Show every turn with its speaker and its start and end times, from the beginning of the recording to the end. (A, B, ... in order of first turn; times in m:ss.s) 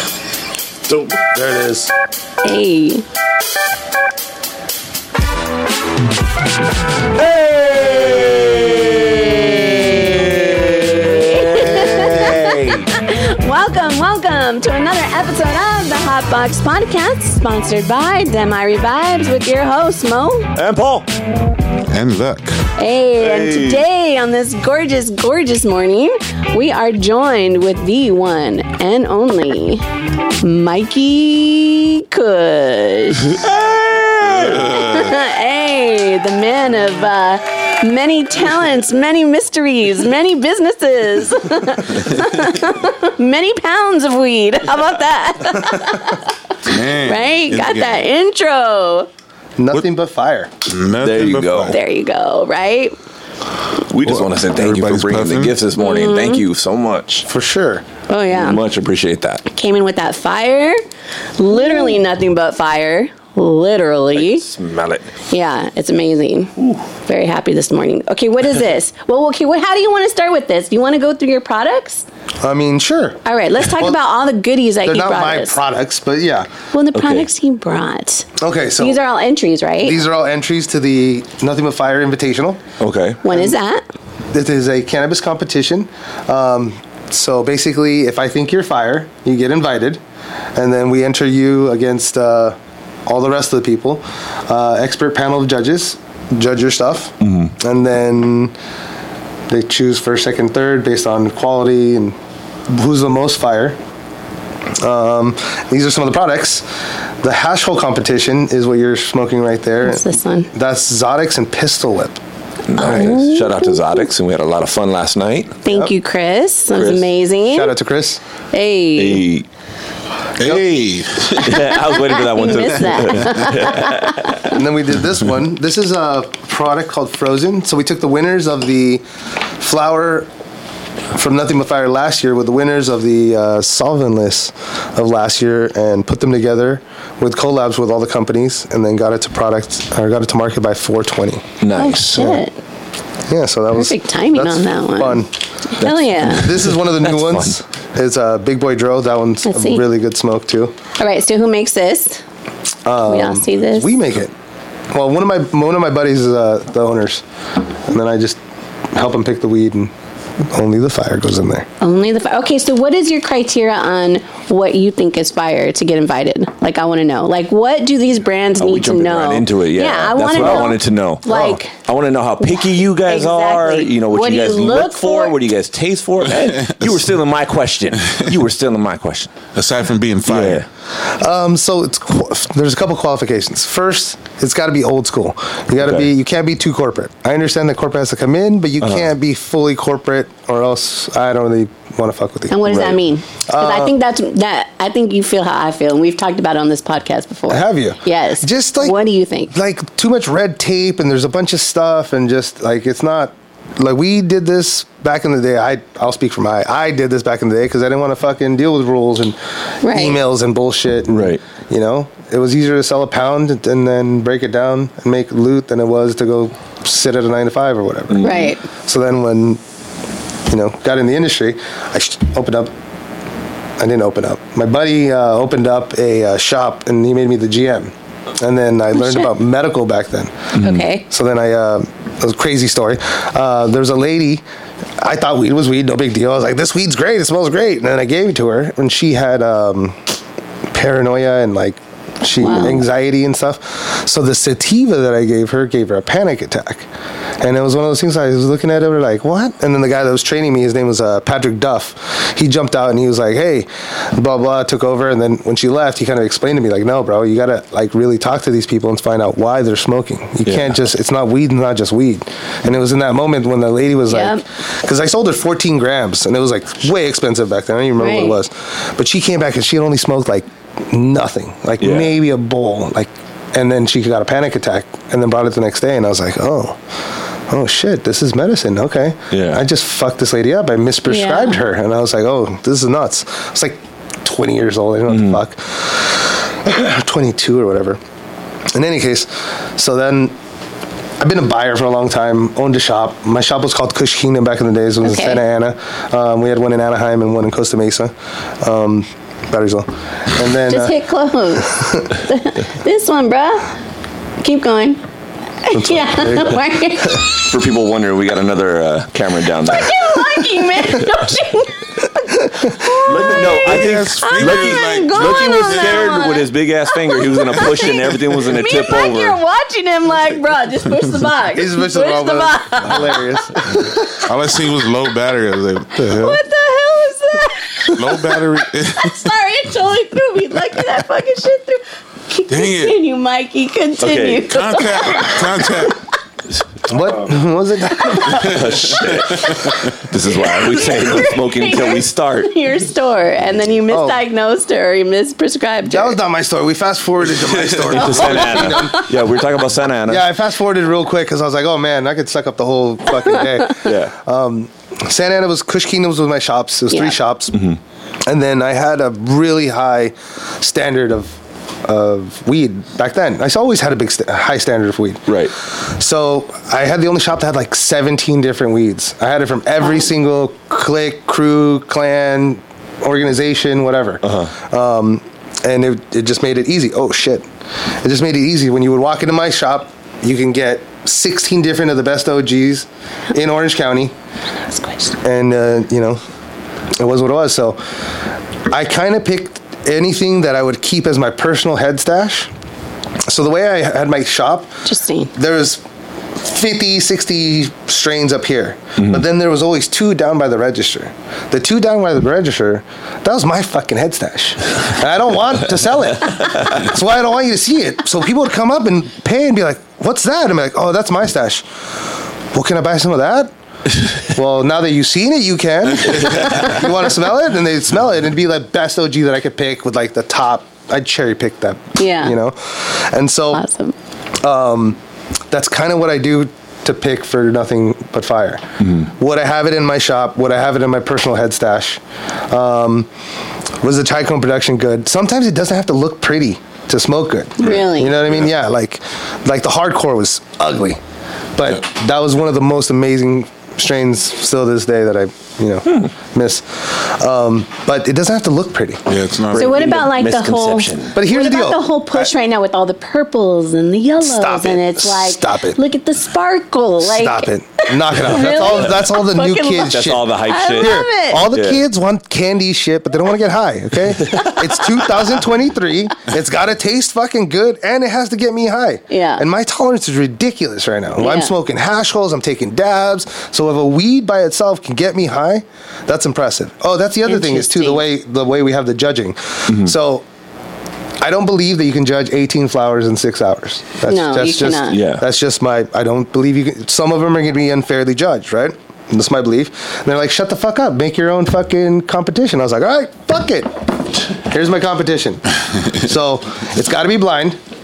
0:01.3-0:01.9 A
0:02.4-0:03.0 B
0:07.2-0:12.9 C
0:09.6-0:10.1 B
0:11.0-0:20.5 B
0:20.6-0:21.1 C
0:21.9-0:22.6 D
0:22.8-0:29.8 B
0:23.2-0:23.8 C
0:30.4-0:46.3 B
0:33.4-0:34.5 C
0:46.6-0:48.0 D
0:47.0-0:49.1 B
0:49.6-0:50.5 A
0:50.7-0:51.8 D
0:51.0-0:51.8 C
0:51.7-0:53.0 B
0:53.9-0:57.3 C
0:54.0-0:55.6 D
0:55.8-0:56.4 B
0:57.3-0:57.8 A
0:58.1-0:58.6 B
0:58.3-0:59.4 C
0:59.5-1:00.8 B
1:01.4-1:04.4 B
1:04.1-1:05.1 C
1:05.3-1:12.0 B
1:12.4-1:14.0 A
1:13.2-1:15.6 B
1:14.8-1:16.5 A
1:16.7-1:20.0 B
1:16.9-1:17.2 C
1:18.4-1:19.0 A
1:19.8-1:22.6 A
1:22.8-1:23.2 C
1:23.2-1:23.8 B
1:24.3-1:30.0 A
1:30.6-1:38.6 A
1:37.2-1:37.5 C
1:39.5-1:42.2 A
1:42.7-1:43.8 A
1:44.8-1:46.7 A
1:47.2-1:52.2 A
1:49.8-1:50.5 B
1:52.7-1:55.6 C
1:52.8-1:53.2 A
1:52.8-1:54.0 B
1:55.6-1:57.7 B
1:56.8-1:57.0 C
1:57.5-1:58.2 A
1:58.5-1:59.2 B
1:59.0-1:59.4 C
2:00.4-2:01.6 D
2:01.3-2:04.5 C
2:01.5-2:04.4 B
2:04.4-2:09.0 A
2:09.6-2:10.3 A
2:11.1-2:21.5 A
2:21.6-2:22.3 C
2:21.8-2:22.5 B
2:22.2-2:22.4 A
2:23.3-2:25.3 A
2:23.7-2:26.6 B
2:25.8-2:27.5 C
2:26.3-2:30.8 A
2:29.4-2:29.8 B
2:31.0-2:32.2 B
2:32.8-2:34.3 A
2:33.1-2:33.9 B
2:34.9-2:37.2 A
2:37.9-2:38.4 A
2:38.9-2:41.7 A
2:41.8-2:51.8 B
2:48.6-2:59.3 C
2:50.3-2:50.7 A
2:51.3-2:51.6 A
2:52.4-2:55.4 B
2:56.4-2:57.0 D
2:59.5-3:00.6 D
3:00.3-3:00.7 C
3:01.0-3:12.6 A
3:05.8-3:06.1 C
3:12.5-3:19.5 B
3:12.7-3:13.0 C
3:13.5-3:13.9 A
3:17.5-3:19.0 A
3:19.5-3:39.6 A
3:29.8-3:30.2 B
3:31.1-3:31.4 C
3:38.1-3:38.5 C
3:38.2-3:38.6 B
3:40.5-3:42.7 A
3:43.8-3:50.6 A
3:49.0-3:49.3 B
3:50.6-3:50.8 C
3:50.6-3:51.0 B
3:51.1-3:54.4 A
3:55.0-4:00.1 A
4:00.7-4:06.9 A
4:02.4-4:02.8 B
4:07.4-4:36.8 A
4:20.4-4:20.7 C
4:24.1-4:24.4 B
4:28.0-4:28.4 B
4:31.8-4:32.2 C
4:37.5-4:48.0 A
4:39.3-4:39.6 C
4:41.1-4:41.6 B
4:45.1-4:45.4 C
4:48.7-4:50.4 A
4:51.2-5:00.9 A
4:55.0-4:55.4 B
5:00.7-5:03.7 B
5:01.6-5:02.1 A
5:04.4-5:05.0 B
5:05.6-5:07.3 B
5:05.7-5:07.2 A
5:07.3-5:10.0 C
5:09.6-5:23.4 B
5:12.5-5:12.9 A
5:13.0-5:19.4 C
5:13.4-5:16.2 D
5:21.5-5:24.2 A
5:24.1-5:26.4 D
5:26.0-5:36.0 B
5:27.9-5:29.3 D
5:32.5-5:33.0 D
5:34.0-5:34.5 C
5:34.4-5:36.0 D
5:36.9-5:38.8 A
5:38.0-5:38.5 B
5:38.3-5:42.5 C
5:38.4-5:39.8 D
5:39.0-5:46.2 B
5:43.9-5:44.2 A
5:45.9-5:49.3 A
5:47.6-5:50.2 C
5:48.0-5:49.1 B
5:50.1-5:57.6 A
5:53.8-5:54.1 C
5:56.9-5:57.2 B
5:57.5-5:57.8 C
5:58.2-6:17.4 A
6:05.3-6:05.5 C
6:14.2-6:14.5 C
6:18.0-6:24.1 A
6:24.7-6:25.1 B
6:25.2-6:26.2 A
6:27.0-6:27.8 A
6:28.7-6:32.5 A
6:33.3-6:34.7 A
6:34.8-6:35.3 B
6:35.3-6:35.8 A
6:36.4-6:51.6 A
6:52.5-6:53.5 A
6:54.2-7:03.6 A
7:02.0-7:02.4 B
7:03.5-7:03.9 B
7:04.4-7:05.0 A
7:05.5-7:13.1 A
7:13.8-7:21.0 A
7:17.6-7:18.2 B
7:21.6-7:29.1 A
7:29.1-7:29.8 D
7:29.5-7:31.2 C
7:29.6-7:41.5 B
7:31.1-7:32.3 A
7:34.2-7:35.8 A
7:37.0-8:00.2 A
7:39.9-7:41.8 C
7:44.3-7:44.6 C
7:49.1-7:49.4 B
7:51.2-7:51.5 B
7:57.2-7:58.0 B
8:01.2-8:15.4 A
8:04.1-8:05.0 B
8:04.9-8:05.2 C
8:16.0-8:17.6 A